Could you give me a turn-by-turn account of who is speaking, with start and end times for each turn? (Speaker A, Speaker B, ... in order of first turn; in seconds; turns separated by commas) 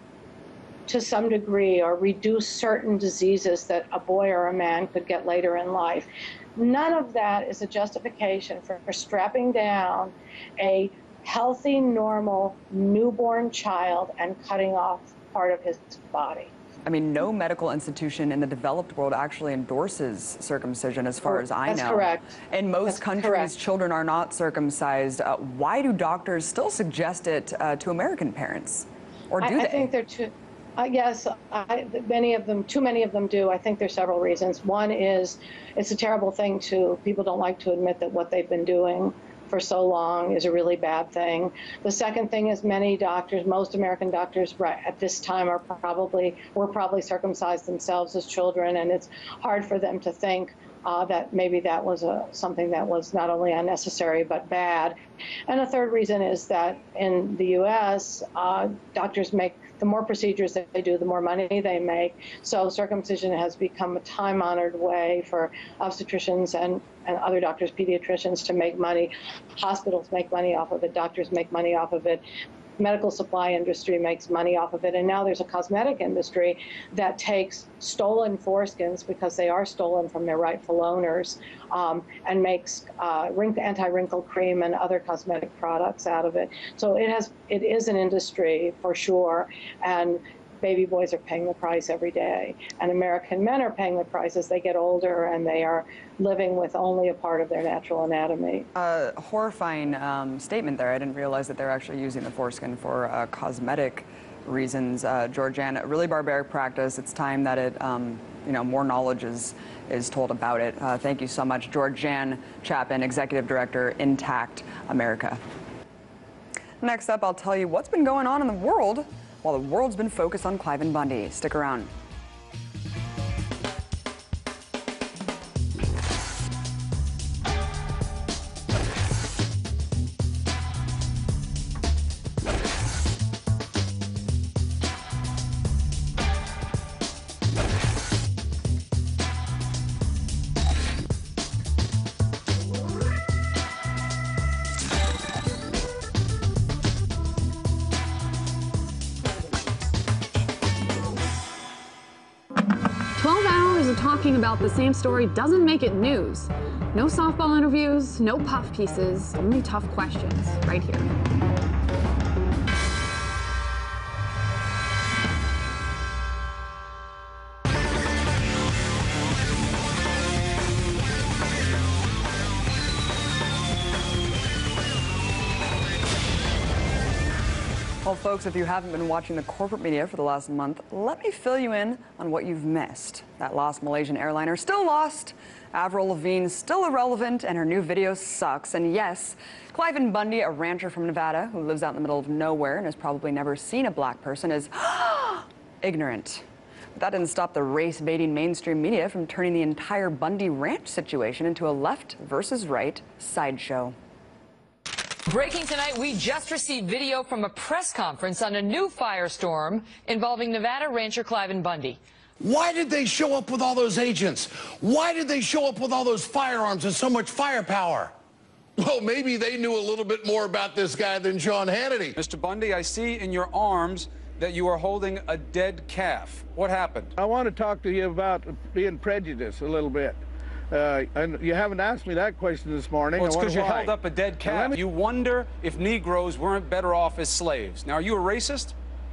Speaker A: 0.9-16.5, Speaker B: 16.8-29.9, Speaker A: 21.2-22.2, Speaker A: 22.9-23.5, Speaker A: 29.4-55.0, Speaker A: 55.5-72.2, Speaker A: 72.8-98.7, Speaker B: 98.7-115.4, Speaker B: 116.8-121.9, Speaker C: 153.2-161.1, Speaker B: 178.0-196.4, Speaker B: 196.9-203.9, Speaker D: 205.3-212.0, Speaker E: 212.4-218.1, Speaker E: 218.8-222.2, Speaker F: 222.2-227.1, Speaker G: 227.2-234.8, Speaker F: 233.2-238.7